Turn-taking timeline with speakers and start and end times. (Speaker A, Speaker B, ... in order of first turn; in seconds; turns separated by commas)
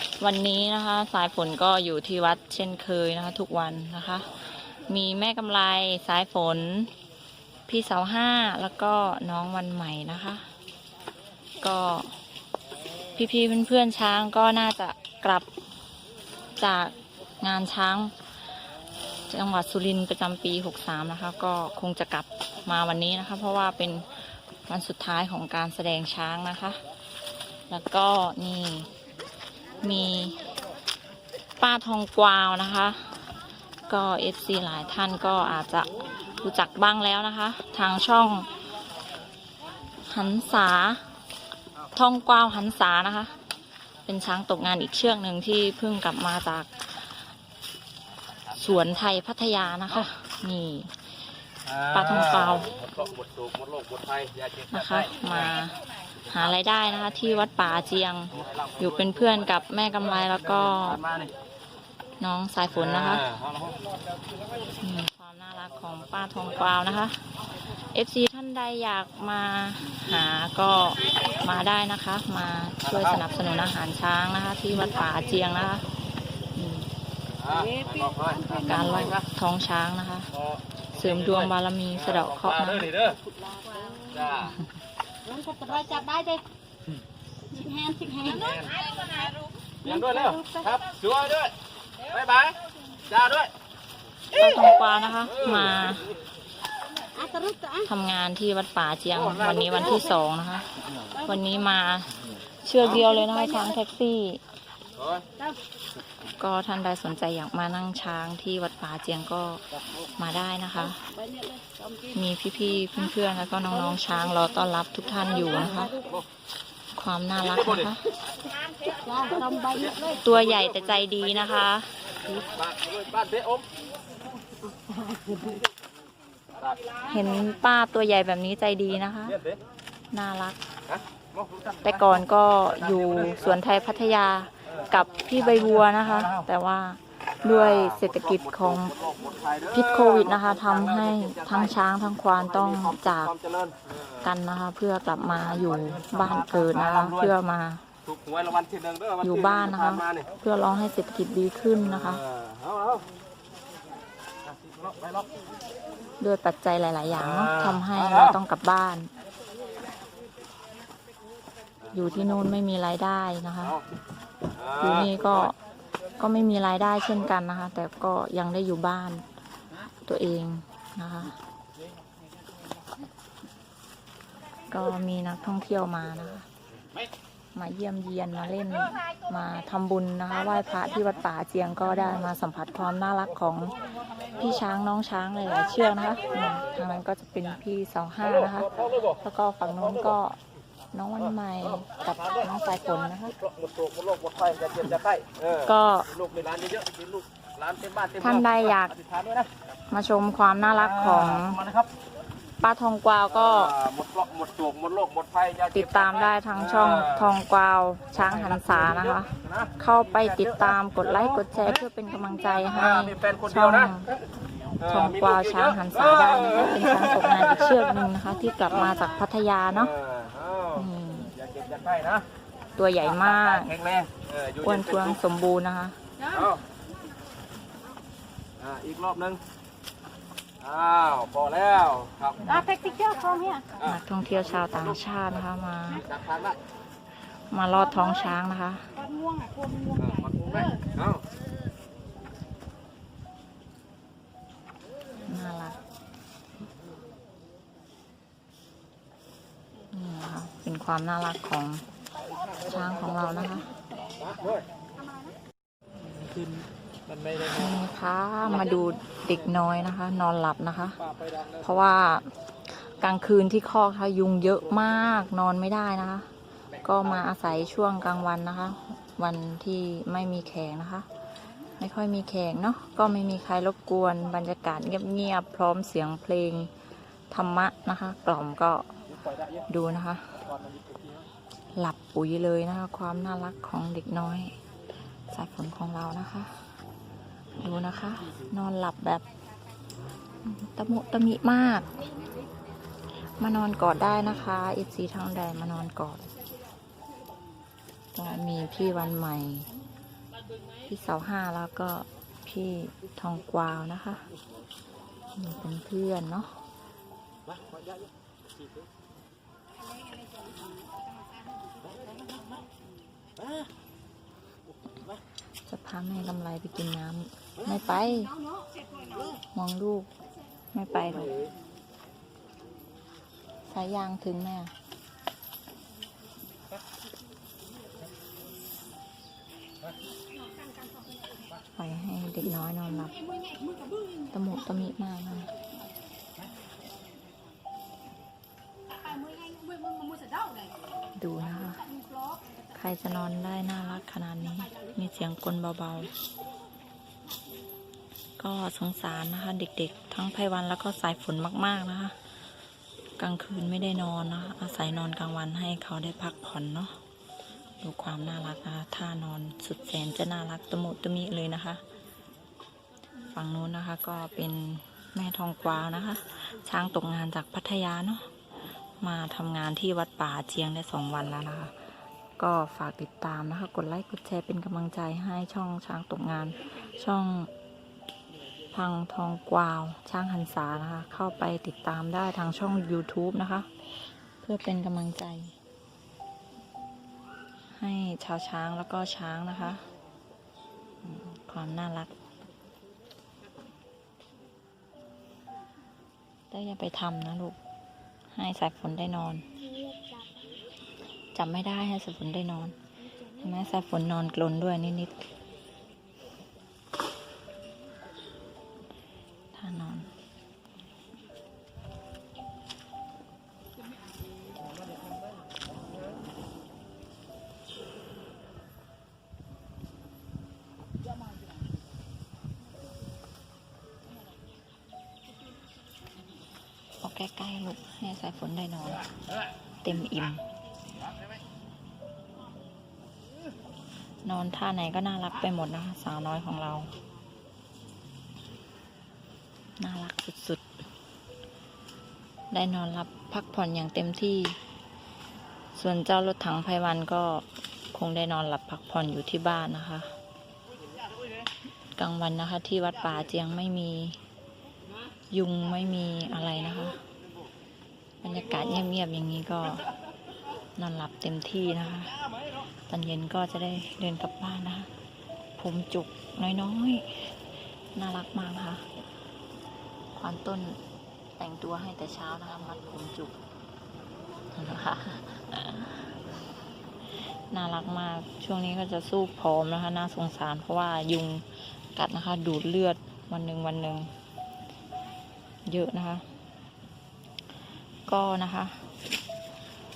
Speaker A: 0.2-6.9, Speaker A: 7.7-10.5, Speaker A: 11.6-12.2, Speaker A: 13.1-15.5, Speaker A: 16.6-18.1, Speaker A: 19.3-26.8, Speaker A: 27.7-28.9, Speaker A: 29.8-30.4, Speaker A: 31.6-33.2, Speaker A: 33.9-38.5, Speaker A: 40.1-41.1, Speaker A: 41.9-43.4, Speaker A: 44.0-46.9, Speaker A: 48.5-51.0, Speaker A: 51.7-52.8, Speaker B: 52.8-54.7, Speaker A: 54.7-61.0, Speaker B: 58.5-58.8, Speaker B: 61.0-61.3, Speaker A: 62.2-63.3, Speaker B: 63.0-63.8, Speaker A: 64.8-67.2, Speaker A: 67.8-75.9, Speaker A: 76.5-76.9, Speaker B: 77.4-79.0, Speaker C: 77.5-79.1, Speaker A: 78.6-80.3, Speaker A: 80.9-83.0, Speaker B: 82.4-83.2, Speaker C: 83.2-84.5, Speaker B: 84.3-84.5, Speaker C: 85.2-86.4, Speaker C: 87.5-89.3, Speaker B: 88.4-88.8, Speaker C: 89.8-90.9, Speaker B: 89.9-91.5, Speaker B: 92.0-93.5, Speaker A: 94.3-96.1, Speaker C: 97.1-97.9, Speaker A: 97.8-102.1, Speaker A: 102.6-104.4, Speaker A: 106.3-111.1, Speaker C: 111.2-112.1, Speaker A: 112.2-116.0, Speaker A: 116.9-118.1, Speaker C: 118.9-120.2, Speaker A: 120.1-122.0, Speaker B: 122.3-123.7, Speaker C: 124.8-125.6, Speaker A: 127.1-129.4, Speaker A: 130.1-130.6, Speaker A: 131.8-139.0, Speaker B: 138.9-141.4, Speaker A: 139.7-143.3, Speaker B: 143.4-143.9, Speaker A: 144.1-147.9, Speaker B: 145.8-147.1, Speaker B: 148.1-149.3, Speaker A: 149.2-152.2, Speaker B: 149.9-150.2, Speaker B: 152.3-153.1, Speaker B: 154.6-155.2, Speaker A: 156.2-159.1, Speaker B: 157.4-157.8, Speaker A: 161.9-163.8, Speaker B: 164.6-165.3, Speaker A: 164.7-165.6, Speaker A: 166.2-169.2, Speaker A: 170.1-171.4, Speaker A: 174.7-176.5, Speaker A: 177.5-183.8, Speaker A: 184.3-190.4, Speaker A: 190.9-193.4, Speaker B: 193.4-195.5, Speaker A: 195.6-196.1, Speaker B: 196.2-199.5, Speaker A: 198.1-199.0, Speaker A: 199.9-201.7, Speaker B: 201.1-201.9, Speaker A: 202.6-203.8, Speaker B: 203.5-205.8, Speaker A: 205.7-214.1, Speaker B: 206.9-207.3, Speaker B: 209.4-209.7, Speaker B: 213.0-213.4, Speaker A: 214.8-220.0, Speaker B: 220.0-220.7, Speaker A: 220.7-221.4, Speaker B: 221.5-222.3, Speaker A: 222.8-223.8, Speaker B: 223.7-224.6, Speaker A: 224.6-226.0, Speaker B: 226.3-226.6, Speaker B: 228.6-229.4, Speaker B: 230.6-232.6, Speaker C: 232.6-233.7, Speaker A: 233.8-236.2, Speaker B: 236.2-236.6, Speaker A: 237.5-238.9, Speaker C: 239.0-240.7, Speaker B: 240.0-241.2, Speaker A: 245.3-245.8, Speaker A: 249.9-251.8, Speaker A: 252.6-253.7, Speaker B: 256.2-257.4, Speaker A: 257.4-271.1, Speaker A: 271.8-276.7, Speaker A: 277.3-278.9, Speaker A: 279.7-280.4, Speaker A: 281.7-284.6, Speaker A: 285.3-286.7, Speaker A: 287.6-289.2, Speaker A: 290.4-291.9, Speaker A: 293.3-296.3, Speaker A: 298.1-299.7, Speaker A: 300.9-304.3, Speaker A: 305.4-306.6, Speaker A: 315.6-318.3, Speaker A: 319.5-320.1, Speaker A: 320.7-321.4, Speaker A: 323.7-324.7, Speaker A: 331.8-333.2, Speaker A: 334.3-335.5, Speaker C: 339.3-340.1, Speaker A: 341.2-341.9, Speaker A: 342.7-346.1, Speaker A: 348.4-352.2, Speaker A: 353.2-357.0, Speaker A: 357.8-361.8, Speaker A: 363.3-368.3, Speaker A: 369.0-371.8, Speaker A: 372.4-377.5, Speaker A: 378.7-383.7, Speaker A: 384.4-385.6, Speaker A: 387.7-389.9, Speaker A: 391.0-392.1, Speaker A: 396.5-397.6, Speaker A: 398.3-399.5, Speaker A: 401.3-402.8, Speaker A: 403.4-405.3, Speaker A: 409.5-410.1, Speaker A: 427.0-429.1, Speaker A: 429.8-430.4, Speaker A: 434.2-436.9, Speaker A: 439.8-440.6, Speaker A: 442.5-444.6, Speaker A: 445.7-450.1, Speaker A: 452.0-454.2, Speaker A: 455.3-457.0, Speaker A: 458.2-459.9, Speaker A: 460.8-462.2, Speaker A: 462.9-464.9, Speaker A: 465.6-467.4, Speaker A: 467.9-468.9, Speaker A: 470.1-470.8, Speaker A: 471.4-473.4, Speaker A: 474.5-476.1, Speaker A: 477.5-484.1, Speaker A: 485.7-486.2, Speaker A: 488.1-488.9